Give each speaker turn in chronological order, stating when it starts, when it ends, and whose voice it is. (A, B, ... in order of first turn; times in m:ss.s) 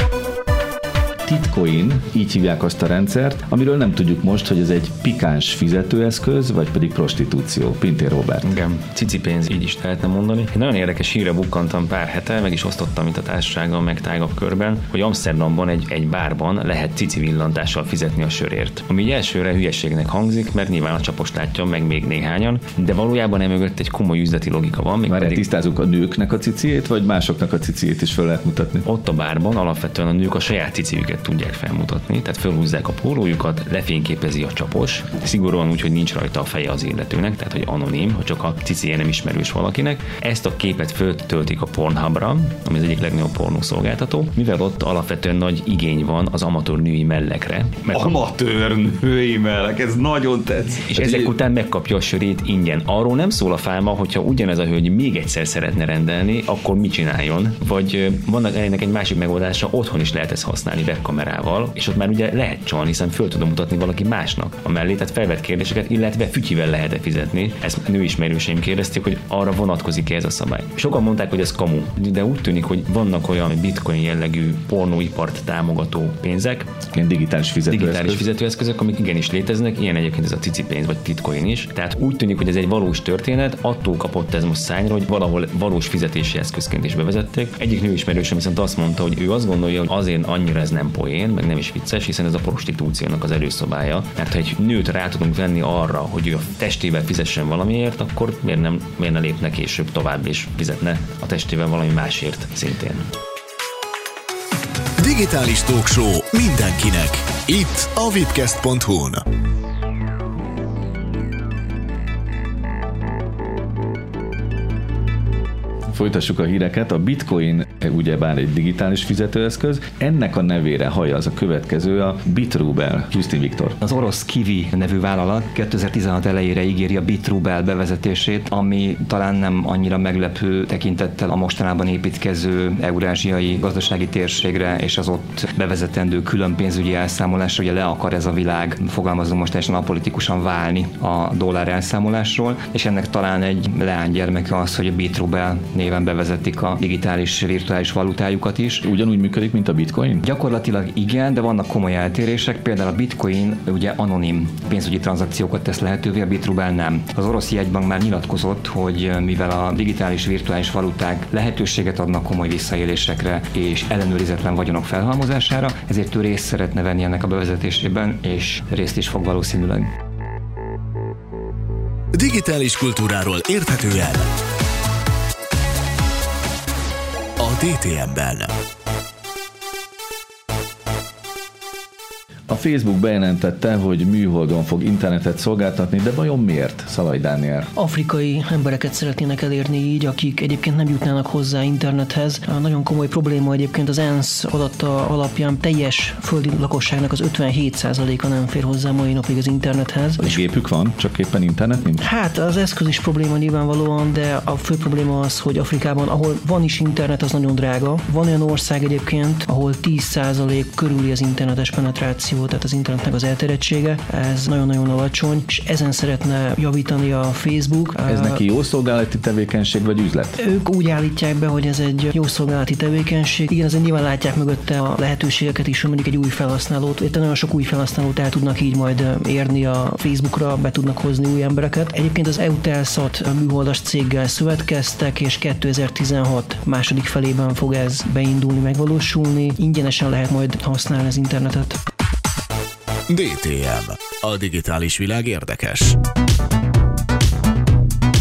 0:01.2-0:08.5 A
0:08.4-0:25.4 B
0:25.1-0:28.8 A
0:28.8-0:48.0 B
0:47.9-0:51.3 C
0:50.9-1:16.7 B
1:16.9-1:18.2 A
1:17.7-1:43.1 B
1:45.0-1:49.2 D
1:55.9-2:03.8 A
2:03.8-2:28.8 E
2:28.8-2:30.2 A
2:30.2-2:49.9 E
2:52.1-2:54.2 D
2:57.4-2:58.5 D
3:02.5-3:07.7 A
3:07.7-3:20.4 F
3:20.2-3:22.0 A
3:22.0-3:38.4 F
3:38.0-3:40.4 A
3:40.4-4:01.8 F
4:03.1-4:06.0 D